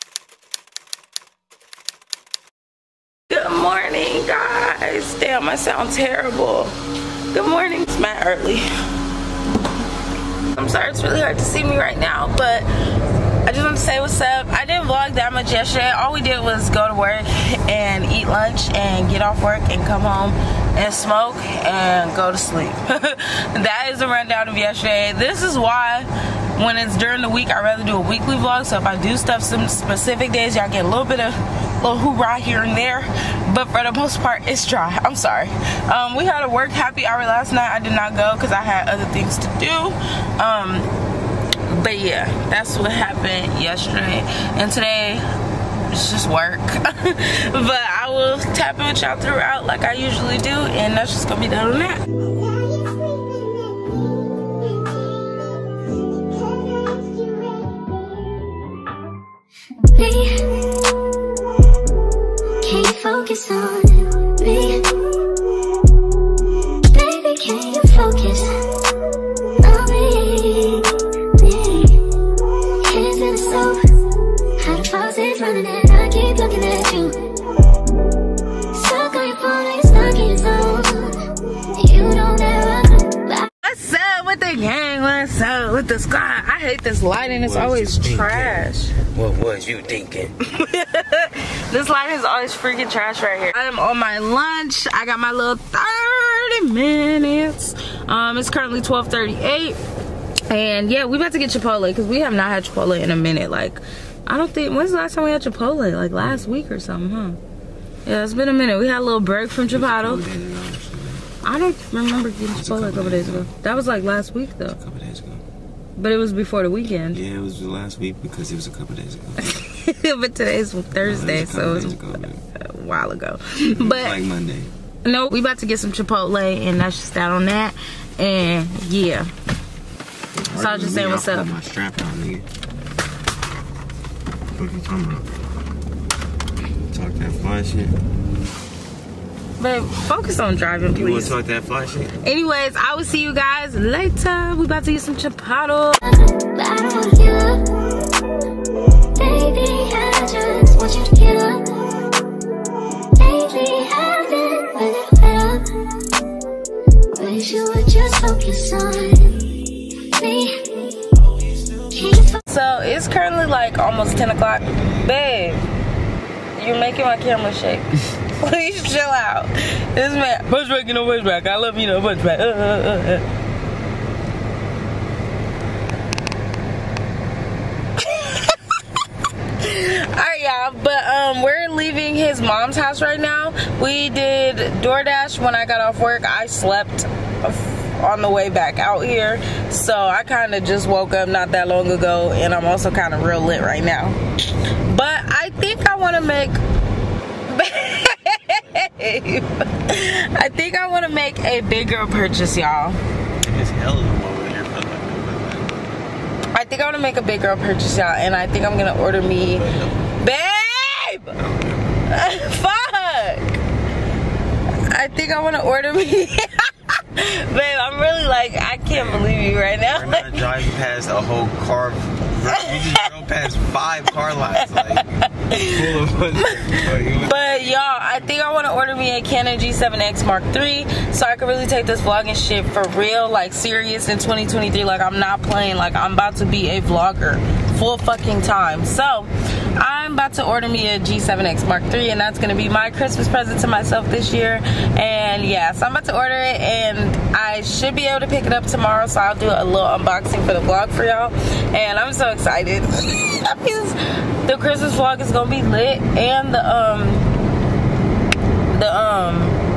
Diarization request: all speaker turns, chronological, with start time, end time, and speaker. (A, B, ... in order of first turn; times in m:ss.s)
0:03.3-0:06.8 A
0:07.3-0:08.6 A
0:10.5-0:12.6 A
0:13.4-0:40.9 A
0:41.7-0:45.2 A
0:45.9-0:52.0 A
1:00.0-1:00.3 B
1:02.6-1:04.8 B
1:06.9-1:08.5 B
1:09.6-1:10.9 B
1:11.4-1:11.9 B
1:12.8-1:13.8 B
1:14.6-1:17.1 B
1:18.7-1:21.1 B
1:21.8-1:23.5 B
1:23.6-1:28.9 A
1:27.1-1:30.3 C
1:30.5-1:39.8 A
1:40.5-1:47.4 A
1:46.2-1:46.5 C
1:48.0-1:50.2 A
1:49.6-1:51.3 C
1:51.4-1:54.8 A
1:52.5-1:55.4 C
1:56.0-1:57.2 A
1:57.1-1:59.6 C
1:59.5-2:04.2 A
2:00.9-2:02.4 C
2:03.8-2:04.7 C
2:05.0-2:09.3 A
2:10.3-2:12.4 C
2:10.6-2:11.5 A
2:14.5-2:15.3 C
2:16.9-2:18.0 C
2:19.6-2:21.4 A
2:20.9-2:22.1 C
2:22.2-2:26.0 A
2:26.0-2:27.6 B
2:29.2-2:31.6 B
2:33.2-2:35.6 B
2:37.1-2:39.4 B
2:40.2-2:40.6 B
2:41.9-2:42.4 B
2:42.5-2:45.6 A
2:43.9-2:45.6 C
2:46.6-2:53.2 A
2:58.0-2:58.6 A
2:59.6-3:14.2 A
3:14.9-3:16.6 A
3:17.5-3:23.0 A
3:23.4-3:26.1 C
3:26.5-3:29.6 A
3:29.2-3:30.0 C
3:30.2-3:31.3 A
3:31.4-3:32.0 C
3:32.1-3:33.6 A
3:34.9-3:40.4 A
3:38.9-3:39.4 C
3:39.9-3:48.3 C
3:42.5-3:43.0 A
3:44.6-3:45.9 A
3:46.4-4:17.3 A
4:18.7-4:19.6 A